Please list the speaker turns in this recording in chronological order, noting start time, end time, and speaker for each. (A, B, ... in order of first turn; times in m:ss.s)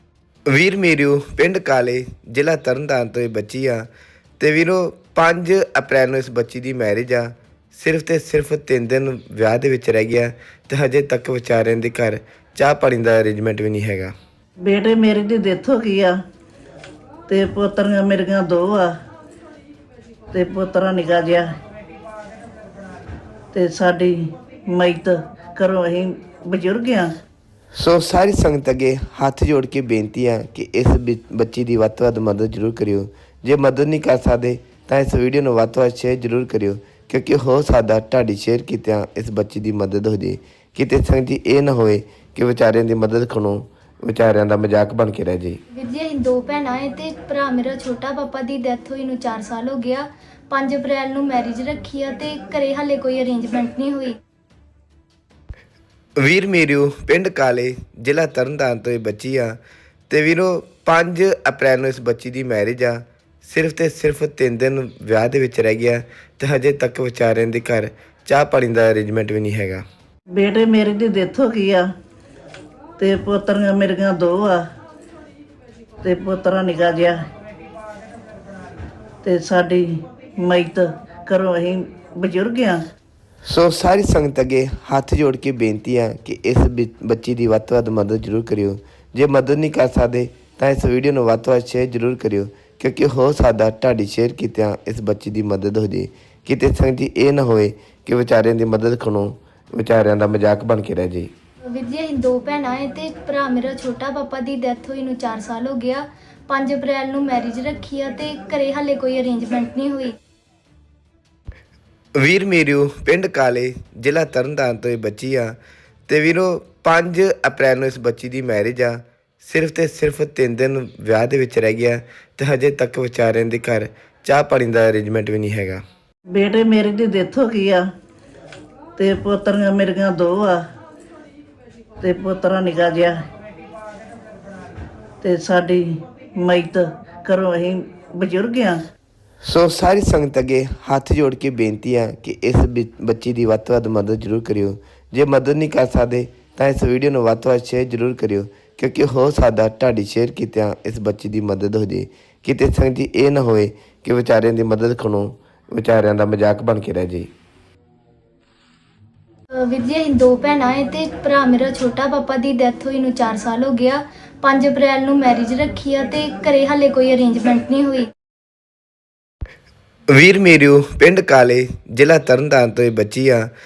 0:00.5-0:03.9 A
0:04.4-0:14.1 A
0:14.6-0:16.1 B
0:17.3-0:18.9 B
0:20.3-0:21.5 B
0:23.5-0:24.2 B
0:24.7-0:27.1 B
0:27.8-0:45.6 A
0:45.7-0:54.1 C
0:56.2-1:09.8 A
1:10.3-1:11.8 B
1:13.0-1:14.6 B
1:16.0-1:17.2 B
1:19.2-1:19.9 B
1:20.4-1:22.8 B
1:23.5-1:41.3 A
1:41.7-1:50.1 C
1:52.2-1:55.6 A
1:56.1-2:05.8 A
2:06.3-2:07.8 B
2:09.0-2:10.6 B
2:12.0-2:13.2 B
2:15.2-2:15.9 B
2:16.4-2:18.8 B
2:19.4-2:37.3 A
2:39.6-2:48.1 C
2:50.1-2:53.5 A